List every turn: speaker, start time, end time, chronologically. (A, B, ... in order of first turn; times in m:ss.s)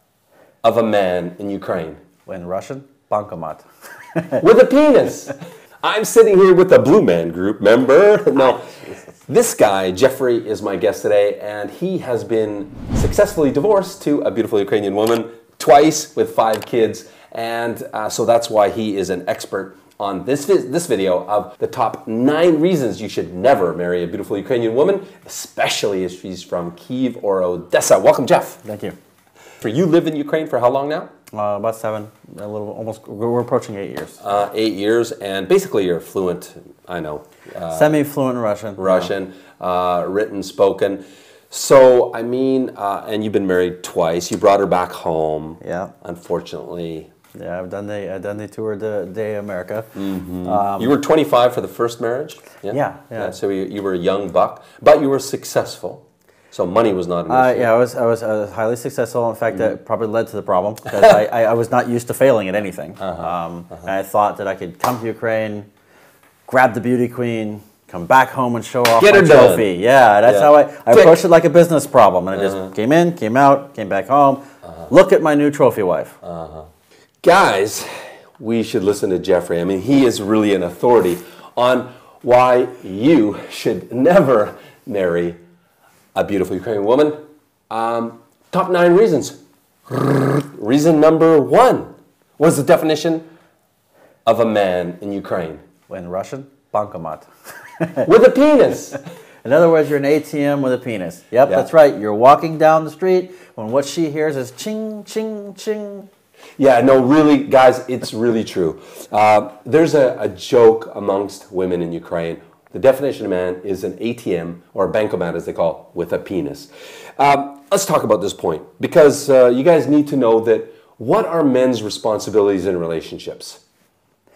0:00.6-0:02.0 A
0:02.3-0:04.4 B
0:04.4-0:08.7 A
0:08.4-0:09.0 B
0:09.3-0:28.6 A
0:28.6-0:29.0 B
0:29.6-0:31.1 A
0:31.3-0:34.2 B
0:34.2-0:38.0 A
0:37.7-0:39.1 B
0:38.8-0:47.1 A
0:45.6-0:45.9 B
0:47.4-0:50.9 B
0:50.0-0:57.7 A
0:52.7-0:53.4 B
0:57.3-1:05.7 B
1:03.0-1:03.8 A
1:06.5-1:16.2 B
1:09.0-1:09.7 A
1:10.3-1:11.2 A
1:12.4-1:12.7 A
1:16.2-1:16.7 A
1:17.2-1:25.4 A
1:26.2-1:27.2 A
1:27.7-1:29.4 A
1:29.9-1:33.3 A
1:34.3-1:35.6 A
1:35.9-1:37.3 B
1:37.8-1:38.1 B
1:38.0-1:39.0 A
1:39.4-1:46.1 B
1:46.6-2:03.6 A